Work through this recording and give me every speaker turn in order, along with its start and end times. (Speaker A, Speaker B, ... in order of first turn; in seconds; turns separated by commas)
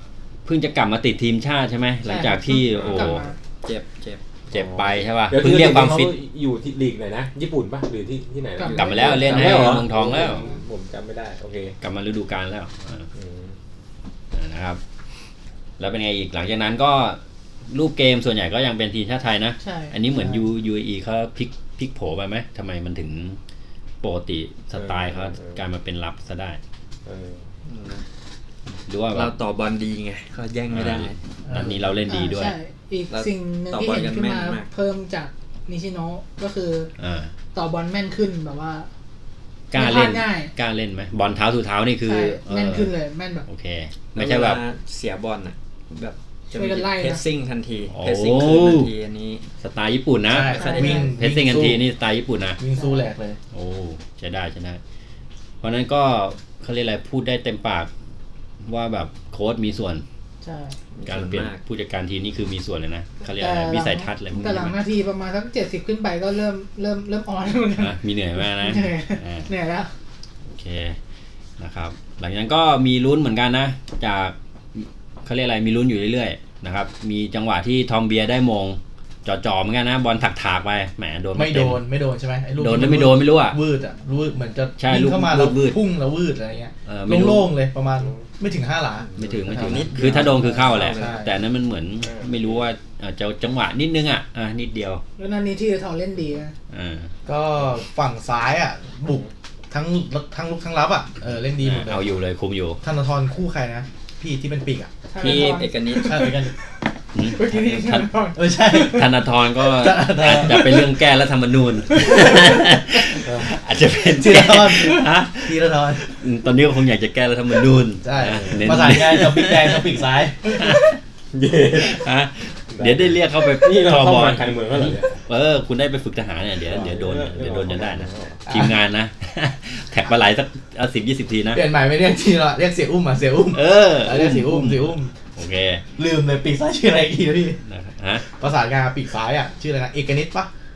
Speaker A: 0.4-3.2, Speaker B: 2.0-3.4, Speaker C: 2.7-3.2, Speaker D: 3.6-4.2, Speaker A: 4.5-6.1, Speaker C: 4.5-11.8, Speaker B: 8.6-10.5, Speaker D: 8.6-9.8, Speaker A: 8.7-10.4, Speaker A: 11.8-13.1, Speaker C: 13.1-13.5, Speaker A: 14.3-14.8, Speaker A: 15.8-23.4, Speaker B: 19.6-19.9, Speaker A: 24.0-26.6, Speaker C: 24.8-25.6, Speaker C: 27.1-27.4, Speaker D: 27.6-28.0, Speaker A: 28.9-29.3, Speaker D: 29.1-31.2, Speaker A: 30.7-32.5, Speaker E: 31.4-31.8, Speaker B: 32.1-36.9, Speaker D: 33.1-34.7, Speaker A: 37.0-37.3, Speaker B: 37.5-38.9, Speaker A: 39.7-42.9, Speaker B: 39.7-40.5, Speaker B: 42.0-43.5, Speaker A: 43.5-44.6, Speaker D: 44.1-49.4, Speaker B: 46.5-47.2, Speaker A: 47.9-48.9, Speaker A: 49.6-52.6, Speaker E: 50.3-51.8, Speaker D: 50.4-51.1, Speaker B: 50.5-51.1, Speaker E: 52.6-53.4, Speaker B: 52.7-53.1, Speaker A: 53.5-54.8, Speaker A: 55.6-57.9, Speaker A: 58.6-60.0, Speaker B: 60.4-60.8, Speaker D: 60.9-61.6, Speaker A: 61.0-64.8, Speaker B: 63.3-69.9, Speaker A: 67.8-69.5, Speaker A: 70.5-71.0, Speaker A: 71.6-81.8, Speaker E: 81.3-91.3, Speaker A: 82.6-83.6, Speaker A: 84.8-85.8, Speaker A: 86.8-87.5, Speaker D: 89.0-91.3, Speaker A: 89.2-95.0, Speaker C: 92.0-92.6, Speaker B: 95.2-96.5, Speaker A: 96.7-97.1, Speaker E: 97.2-102.1, Speaker A: 101.6-102.8, Speaker E: 102.8-105.5, Speaker B: 105.1-108.4, Speaker D: 105.2-106.2, Speaker A: 105.2-105.5, Speaker E: 106.0-106.5, Speaker A: 107.1-119.9, Speaker E: 108.3-111.0, Speaker E: 114.1-116.1, Speaker E: 118.0-120.8, Speaker C: 118.2-119.0, Speaker A: 120.5-121.0, Speaker C: 121.3-122.0, Speaker A: 121.7-131.6, Speaker C: 122.7-125.2, Speaker C: 126.6-128.4, Speaker E: 128.5-128.8, Speaker E: 131.5-135.1, Speaker A: 133.5-135.8, Speaker E: 136.0-137.6, Speaker A: 137.6-138.2, Speaker E: 138.4-140.5